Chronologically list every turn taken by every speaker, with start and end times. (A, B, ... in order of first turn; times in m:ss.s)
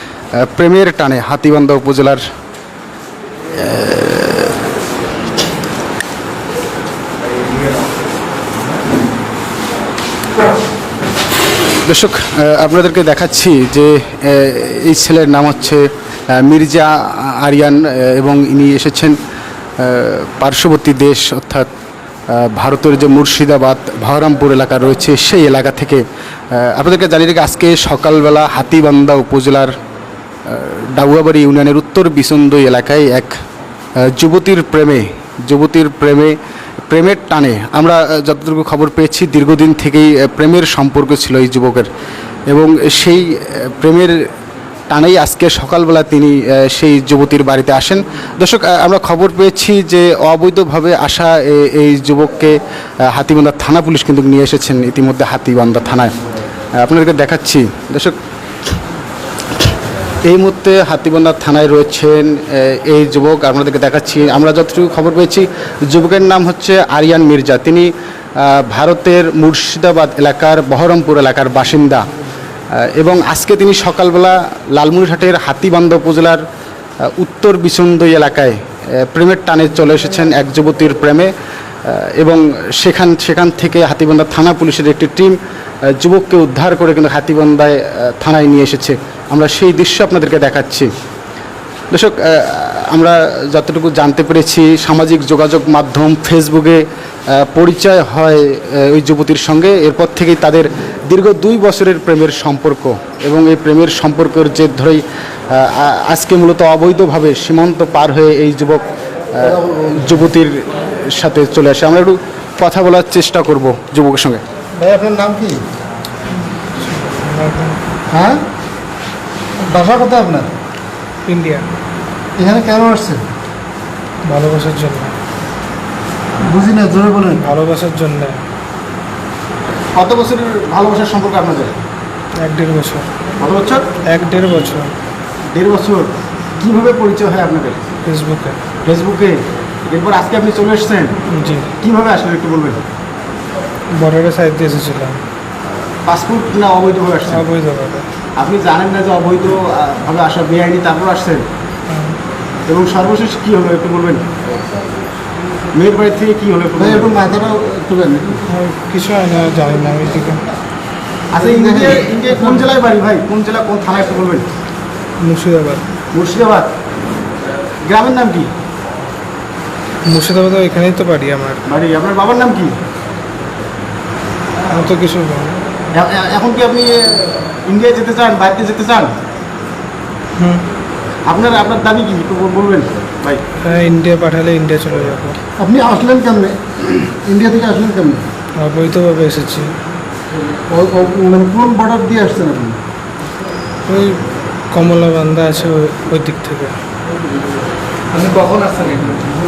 0:00.4-0:02.2 A
0:03.6-0:04.6 A
0:11.8-0:19.2 A
0:19.8-0:21.7 A
0:22.3-0:29.7 A
0:30.5-0:33.4 A
0:34.0-0:36.4 A
0:36.9-0:41.9 A
0:42.5-0:44.2 A
0:44.9-0:56.1 A
0:56.8-0:58.2 A
1:00.2-1:12.1 A
1:12.8-1:16.4 A
1:17.0-1:21.3 A
1:21.9-1:25.4 A
1:25.9-1:30.9 A
1:31.9-1:54.4 A
1:49.4-1:50.0 B
1:54.8-1:55.6 B
1:56.8-1:57.8 C
1:58.1-1:58.4 B
1:59.7-2:00.5 B
2:01.3-2:01.7 C
2:02.4-2:03.2 B
2:04.3-2:05.2 C
2:06.4-2:07.4 B
2:07.4-2:08.4 C
2:10.0-2:11.8 A
2:12.4-2:13.1 C
2:13.4-2:13.9 A
2:14.1-2:14.9 C
2:15.5-2:17.8 A
2:18.1-2:18.6 C
2:18.8-2:21.2 A
2:21.3-2:21.7 C
2:21.8-2:22.8 A
2:24.0-2:25.2 C
2:26.0-2:27.4 A
2:27.3-2:28.1 C
2:28.4-2:31.5 A
2:31.9-2:32.2 C
2:32.7-2:34.3 A
2:35.7-2:37.2 A
2:36.8-2:38.4 B
2:38.5-2:40.4 C
2:41.3-2:44.5 A
2:41.4-2:42.7 B
2:45.2-2:45.9 C
2:46.1-2:46.7 A
2:47.8-2:48.5 A
2:50.1-2:51.6 C
2:51.7-2:52.8 A
2:54.6-2:55.6 C
2:55.9-2:59.2 A
3:00.4-3:00.7 C
3:01.2-3:03.4 A
3:03.6-3:05.4 C
3:05.6-3:08.3 B
3:08.6-3:09.7 C
3:10.7-3:12.8 B
3:13.9-3:14.2 C
3:14.7-3:16.8 C
3:18.2-3:19.2 B